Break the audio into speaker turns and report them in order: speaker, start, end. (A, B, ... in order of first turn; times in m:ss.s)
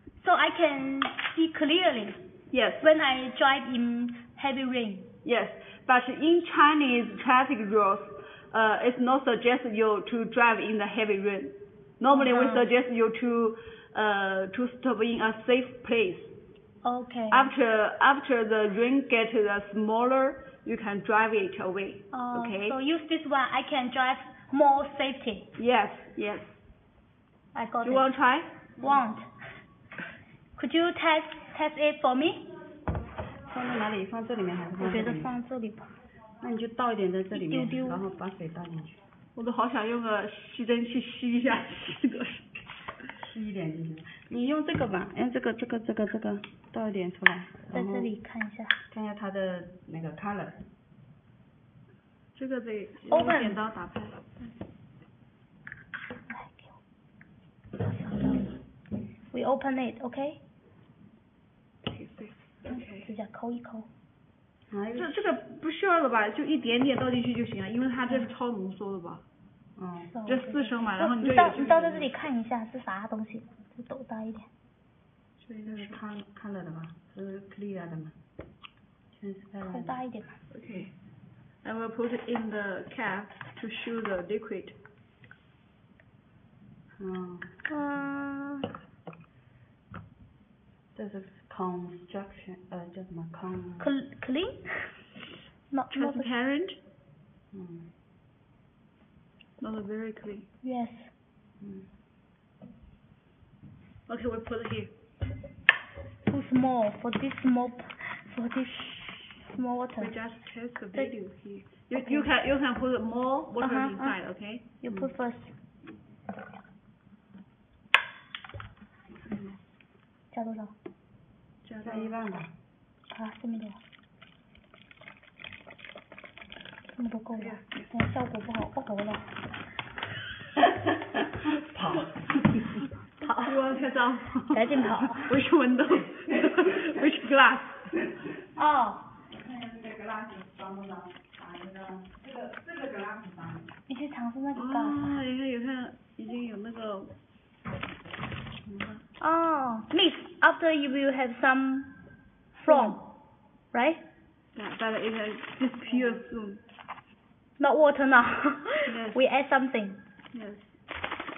0:00.2-0:02.2 A
0:02.5-0:02.9 B
0:02.8-0:05.1 A
0:05.2-0:16.4 B
0:12.1-0:12.6 A
0:16.8-0:17.5 A
0:17.3-0:22.8 B
0:22.1-0:25.5 A
0:25.6-0:26.6 B
0:27.5-0:28.1 A
0:27.8-0:28.5 B
0:28.8-0:29.3 A
0:30.6-0:32.5 A
0:33.4-0:35.3 C
0:34.8-0:35.9 A
0:36.4-0:39.0 C
0:37.3-0:38.0 A
0:39.3-0:42.6 B
0:43.2-0:48.1 C
0:47.7-0:48.8 A
0:48.9-0:50.6 C
0:52.3-0:54.5 B
0:53.1-0:53.6 A
0:56.3-0:56.7 A
0:57.8-0:58.5 A
0:59.3-1:00.4 A
1:01.8-1:03.1 B
1:02.7-1:03.9 A
1:04.7-1:05.2 C
1:04.9-1:09.2 B
1:09.8-1:10.1 C
1:10.0-1:14.5 A
1:10.2-1:12.1 B
1:15.4-1:16.0 B
1:15.6-1:18.2 C
1:19.1-1:20.0 C
1:19.6-1:20.4 A
1:20.5-1:20.9 B
1:21.6-1:24.8 B
1:27.0-1:27.5 C
1:27.7-1:28.7 A
1:30.9-1:33.9 C
1:33.8-1:35.0 A
1:35.7-1:36.3 A
1:35.9-1:36.8 B
1:37.5-1:37.9 C
1:39.6-1:40.5 B
1:40.6-1:41.1 A
1:41.6-1:41.9 C
1:44.1-1:44.9 B
1:46.3-1:50.1 A
1:50.0-1:54.7 B
1:51.9-1:52.3 A
1:53.6-1:54.1 A
1:54.8-1:55.5 A
1:59.1-1:59.6 C
2:00.3-2:00.7 A
2:01.6-2:02.2 B
2:01.8-2:02.5 C
2:03.1-2:03.8 A
2:07.0-2:09.4 A
2:07.4-2:07.9 B
2:11.4-2:12.4 C
2:13.2-2:13.6 A
2:13.4-2:18.0 B
2:14.5-2:15.3 A
2:18.6-2:19.1 A
2:19.3-2:23.7 C
2:23.9-2:25.2 A
2:24.6-2:27.1 B
2:28.7-2:29.0 B
2:29.2-2:31.9 A
2:32.6-2:33.1 A
2:32.6-2:33.0 B
2:33.7-2:34.0 A
2:34.5-2:36.6 B
2:37.6-2:40.0 A
2:38.8-2:39.2 B
2:40.3-2:40.8 B